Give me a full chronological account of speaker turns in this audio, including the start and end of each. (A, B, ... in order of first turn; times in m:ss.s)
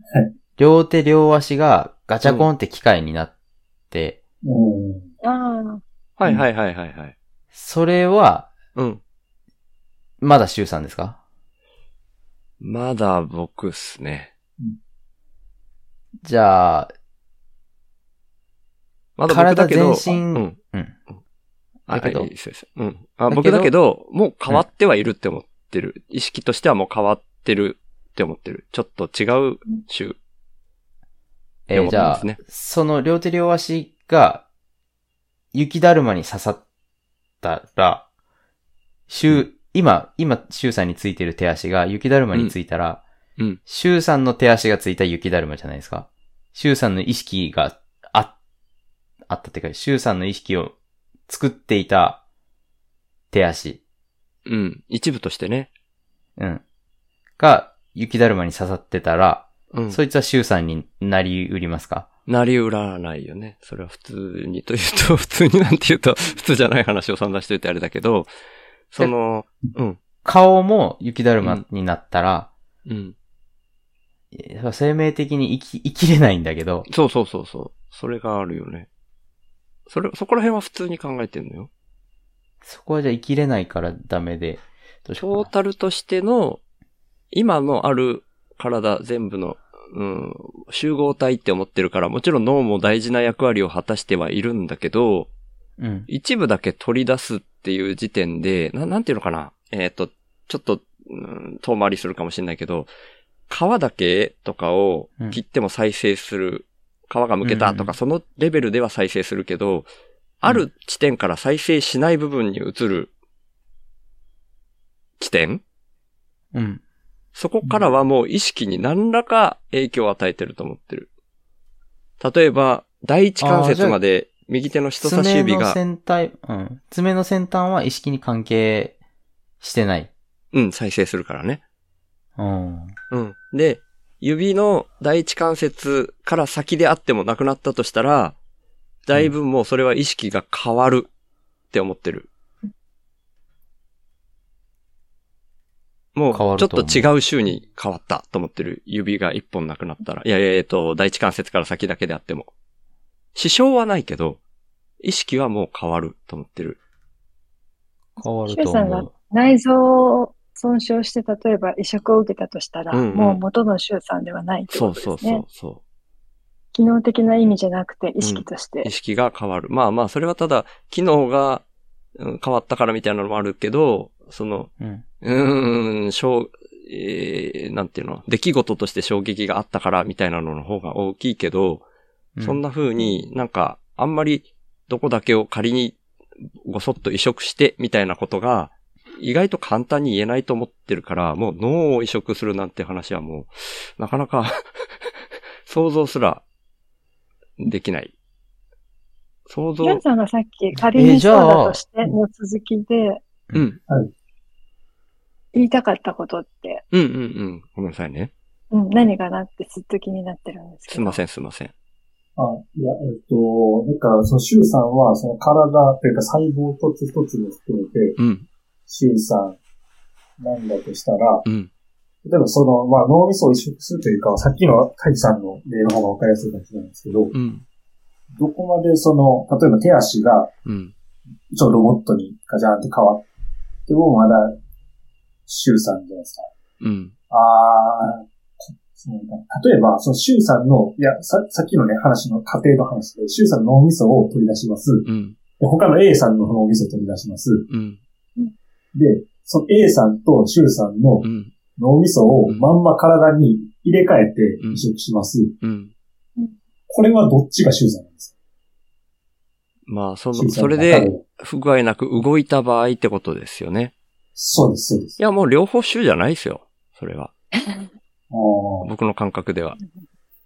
0:00.6-0:03.3 A
0:02.2-0:02.5 B
0:03.9-0:04.2 A
0:04.4-0:05.1 C
0:05.2-0:05.8 D
0:06.2-0:07.1 B
0:07.5-0:08.5 A
0:08.8-0:09.0 B
0:10.2-0:11.2 A
0:12.6-0:14.3 B
0:16.2-0:16.9 A
0:19.2-0:20.6 B
0:19.3-0:21.0 A
0:21.9-0:30.2 B
0:21.9-0:22.3 A
0:23.3-0:23.7 A
0:31.7-0:34.4 A
0:31.7-0:32.4 B
0:35.5-0:36.6 A
0:37.4-0:38.0 A
0:39.1-0:43.0 A
0:43.6-0:48.3 A
0:49.3-0:50.7 A
0:51.3-0:52.2 A
0:53.3-0:53.8 A
0:54.4-0:55.7 B
0:56.4-0:56.6 A
0:57.4-1:02.1 A
0:59.7-1:00.0 B
1:02.3-1:08.3 B
1:08.9-1:10.0 B
1:10.2-1:12.5 A
1:12.8-1:13.1 B
1:14.3-1:16.9 A
1:16.9-1:18.9 B
1:19.9-1:21.7 B
1:22.6-1:25.5 A
1:25.2-1:26.6 B
1:27.3-1:35.3 B
1:35.8-1:36.1 A
1:36.1-1:42.9 B
1:43.5-1:49.9 B
1:47.4-1:48.0 A
1:50.4-1:53.1 B
1:55.2-1:55.6 B
1:56.5-1:56.8 A
1:57.3-2:01.1 B
1:57.6-1:57.9 C
2:02.2-2:05.8 B
2:03.4-2:04.0 A
2:05.0-2:09.0 A
2:09.6-2:10.1 A
2:10.5-2:11.6 B
2:12.4-2:12.9 A
2:13.1-2:18.4 B
2:19.0-2:21.1 B
2:21.7-2:22.3 B
2:26.1-2:32.5 B
2:26.3-2:27.0 A
2:33.3-2:34.4 B
2:35.0-2:36.8 B
2:38.2-2:39.1 A
2:38.2-2:45.4 D
2:42.9-2:43.4 B
2:44.7-2:45.8 B
2:46.7-2:48.9 D
2:48.2-2:51.6 B
2:52.2-3:01.8 B
3:02.4-3:02.6 A
3:02.4-3:06.0 B
3:06.6-3:15.0 B
3:15.6-3:16.4 B
3:17.6-3:18.1 B
3:19.5-3:20.0 B
3:19.8-3:23.2 D
3:20.9-3:21.8 A
3:23.5-3:23.8 B
3:25.5-3:26.8 D
3:26.9-3:28.3 B
3:28.7-3:31.2 D
3:30.9-3:31.7 B
3:32.4-3:38.2 C
3:38.2-3:38.4 B
3:38.9-3:39.6 C
3:40.4-3:41.4 C
3:42.2-3:47.3 C
3:47.3-3:47.6 B
3:48.4-3:50.5 C
3:50.6-3:50.9 B
3:51.5-3:53.3 C
3:53.9-3:54.6 C
3:55.5-3:56.5 C
3:56.8-3:57.1 B
3:57.3-4:05.1 C
4:05.0-4:05.4 B
4:05.6-4:07.6 C
4:07.7-4:08.0 B
4:08.9-4:15.5 C
4:11.2-4:11.5 B
4:14.6-4:14.8 B
4:15.6-4:15.9 B
4:16.9-4:18.3 C
4:19.9-4:23.9 B
4:20.3-4:21.2 C
4:24.4-4:25.2 C
4:25.2-4:27.3 B
4:27.6-4:27.9 D
4:28.3-4:28.9 C
4:28.8-4:29.8 B
4:29.8-4:30.0 D